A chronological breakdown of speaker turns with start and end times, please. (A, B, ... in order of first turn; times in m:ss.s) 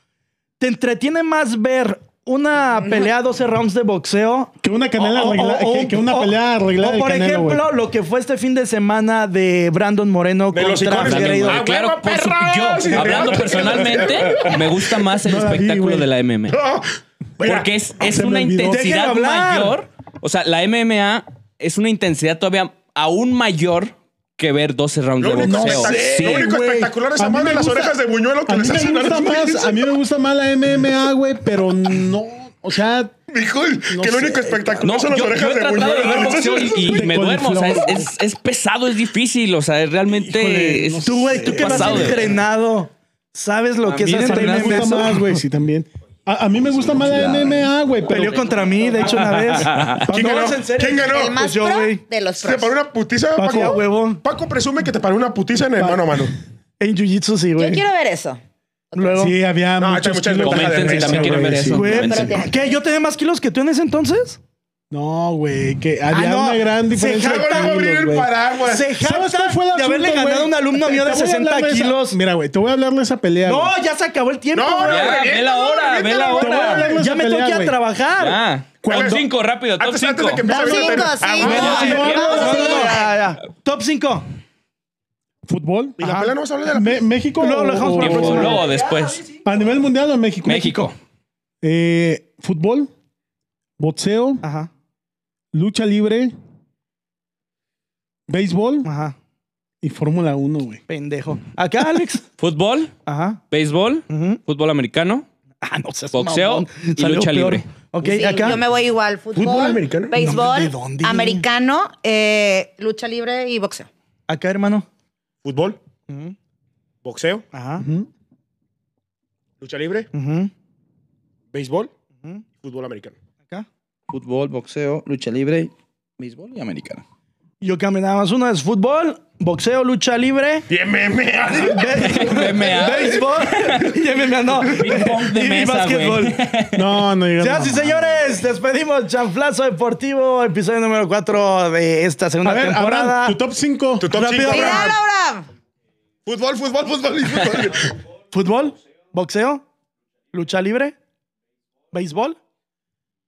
0:00.6-0:11.6 A
0:04.6-0:07.6 B
0:10.5-0:14.6 C
0:11.0-0:16.6 D
0:12.9-0:16.1 B
0:16.5-0:17.7 C
0:17.4-0:26.5 D
0:18.0-0:18.9 B
0:18.6-0:19.8 A
0:25.2-0:29.8 C
0:25.4-0:33.1 B
0:33.3-0:37.0 C
0:33.9-0:35.1 B
0:34.8-0:42.3 D
0:36.8-0:38.1 B
0:40.1-0:42.3 B
0:41.0-0:45.2 A
0:43.8-0:45.1 E
0:44.2-0:48.7 B
0:47.0-0:47.7 E
0:48.0-0:52.0 A
0:49.7-0:50.1 B
0:50.0-0:51.4 C
0:51.0-0:52.8 F
0:52.4-0:56.3 C
0:53.4-0:53.7 B
0:53.4-0:54.2 A
0:55.8-0:56.1 B
0:56.8-0:57.8 A
0:57.6-0:58.4 F
0:58.9-0:59.2 F
0:58.9-0:59.3 A
0:59.2-1:02.1 B
0:59.8-1:01.6 C
1:00.4-1:02.4 D
1:01.7-1:04.4 A
1:01.7-1:02.8 F
1:04.9-1:08.3 B
1:06.1-1:07.8 A
1:07.2-1:08.9 C
1:08.6-1:12.2 A
1:09.0-1:13.7 B
1:13.4-1:15.3 A
1:14.5-1:16.9 C
1:14.8-1:16.9 D
1:16.3-1:17.8 B
1:16.9-1:18.4 A
1:18.2-1:20.6 D
1:18.8-1:19.3 C
1:19.8-1:22.1 C
1:20.4-1:23.1 F
1:20.5-1:24.3 A
1:21.4-1:23.0 B
1:21.4-1:22.6 D
1:25.4-1:26.0 B
1:26.0-1:27.0 C
1:26.0-1:26.3 A
1:26.7-1:28.6 B
1:27.4-1:28.8 A
1:28.0-1:29.2 D
1:29.4-1:30.9 B
1:30.4-1:30.9 D
1:31.6-1:32.9 B
1:33.8-1:34.4 B
1:34.4-1:34.7 A
1:35.5-1:36.3 B
1:38.3-1:38.9 B
1:38.8-1:39.1 A
1:39.8-1:40.8 B
1:40.9-1:42.2 A
1:42.4-1:42.9 D
1:43.0-1:43.4 A
1:43.5-1:45.2 D
1:44.1-1:44.4 A
1:45.6-1:48.6 A
1:46.1-1:47.6 D
1:48.0-1:53.9 F
1:49.3-1:50.1 C
1:50.2-1:51.4 A
1:54.3-1:54.8 A
1:55.4-1:55.8 C
1:56.1-1:56.3 A
1:57.0-1:57.4 C
1:57.5-1:57.9 A
1:57.8-1:58.1 B
1:59.6-2:00.1 C
2:00.1-2:00.5 A
2:01.5-2:01.9 C
2:02.6-2:03.1 C
2:04.1-2:07.0 E
2:07.6-2:10.7 A
2:10.7-2:12.2 C
2:11.5-2:16.4 A
2:12.0-2:13.9 D
2:14.6-2:16.9 D
2:16.7-2:17.9 B
2:17.4-2:23.4 A
2:22.4-2:24.1 B
2:24.0-2:25.0 C
2:24.1-2:25.0 A
2:24.4-2:25.4 F
2:26.2-2:27.9 C
2:28.3-2:29.6 A
2:30.3-2:31.0 A
2:31.9-2:32.4 A